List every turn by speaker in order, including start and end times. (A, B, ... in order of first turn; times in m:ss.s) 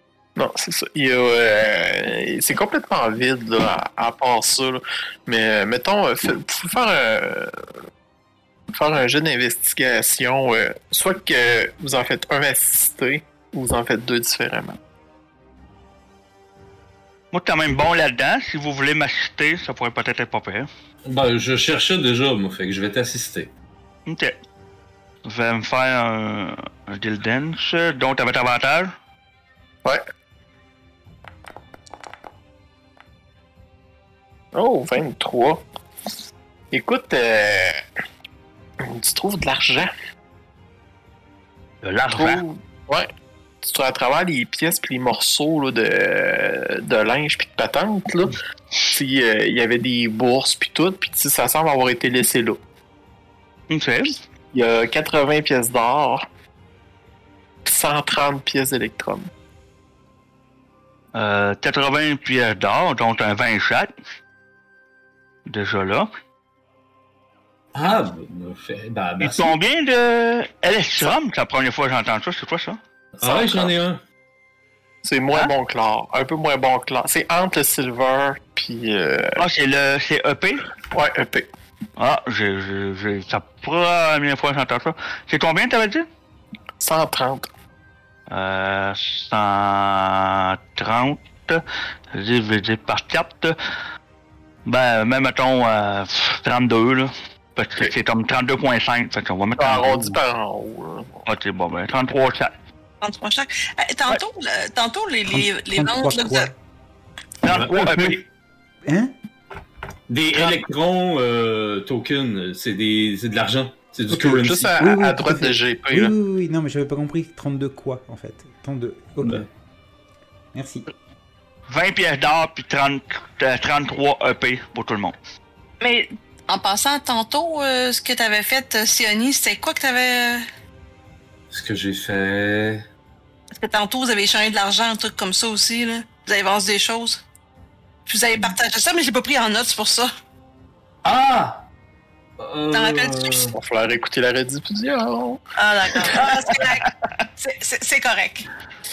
0:00.4-0:07.5 A
0:08.7-0:14.8 A
0:17.3-0:20.7 B
0:21.0-0:23.5 C
0:24.1-0:24.3 B
0:25.2-0:28.9 B
0:34.5-0:35.6 A
0:36.7-0:37.8 A
0:38.8-0:39.9 A
0:41.8-0:42.4 B
0:42.1-0:43.1 A
0:43.6-0:48.4 A
0:48.9-0:52.6 A
0:53.7-0:54.2 B
0:54.5-0:56.2 A
0:57.6-0:59.3 A
1:01.1-1:03.9 B
1:05.4-1:06.1 B
1:07.7-1:09.6 C
1:09.2-1:12.8 B
1:13.1-1:14.0 C
1:13.2-1:13.7 A
1:15.0-1:19.4 A
1:19.4-1:20.7 B
1:20.9-1:21.5 A
1:22.0-1:26.0 B
1:26.8-1:27.5 A
1:28.3-1:33.5 B
1:34.6-1:40.2 B
1:39.6-1:41.2 A
1:41.2-1:42.5 B
1:43.0-1:46.5 D
1:45.3-1:46.5 E
1:47.4-1:48.2 B
1:47.4-1:48.2 C
1:48.8-1:49.1 E
1:50.1-1:54.7 C
1:54.1-1:56.1 A
1:54.8-1:59.5 E
2:00.5-2:00.9 E
2:01.7-2:05.1 B
2:05.8-2:10.4 D
2:11.5-2:12.8 C
2:13.5-2:17.2 D
2:18.1-2:20.1 D
2:21.0-2:21.6 C
2:22.4-2:23.5 C
2:22.7-2:23.4 D
2:23.5-2:25.4 A
2:25.6-2:28.5 D